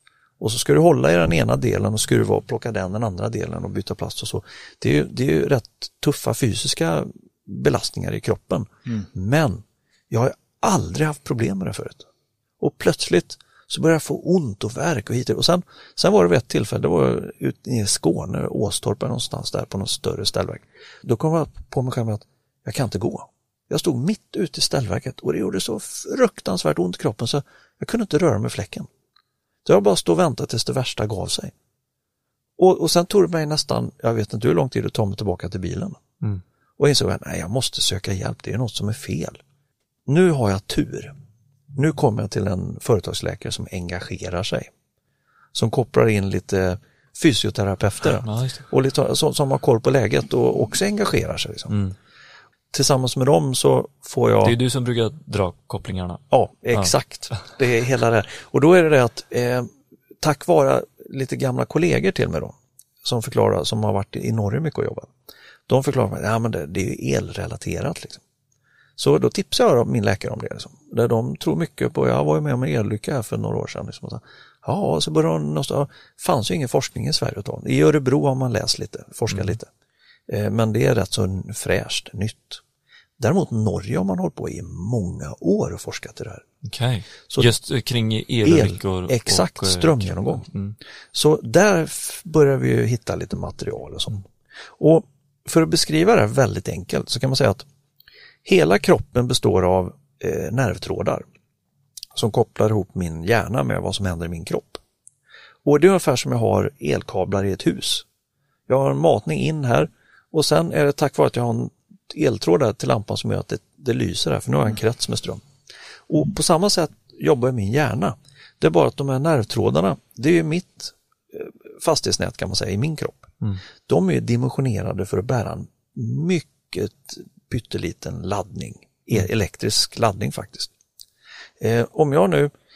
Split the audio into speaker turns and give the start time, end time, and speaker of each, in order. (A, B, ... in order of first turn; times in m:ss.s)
0:00.4-0:12.1 A
0:12.6-0:28.9 A
0:29.6-0:31.5 A
0:32.6-0:36.0 A
0:36.8-0:39.4 A
0:40.0-0:41.1 A
0:41.7-0:44.7 A
0:45.5-0:51.8 A
0:48.2-0:48.6 B
0:52.7-0:54.6 A
0:54.4-0:56.2 B
0:56.3-1:05.1 A
1:05.7-1:08.2 A
1:09.0-1:19.7 A
1:19.3-1:19.6 B
1:20.3-1:22.6 A
1:23.2-1:26.4 A
1:26.6-1:30.7 B
1:28.4-1:30.4 A
1:31.1-1:34.2 A
1:34.8-1:37.6 A
1:38.4-1:41.3 A
1:42.1-1:44.8 A
1:45.6-1:48.0 A
1:48.7-1:55.4 A
1:56.1-2:03.3 A
2:03.9-2:10.7 A
2:11.6-2:12.5 A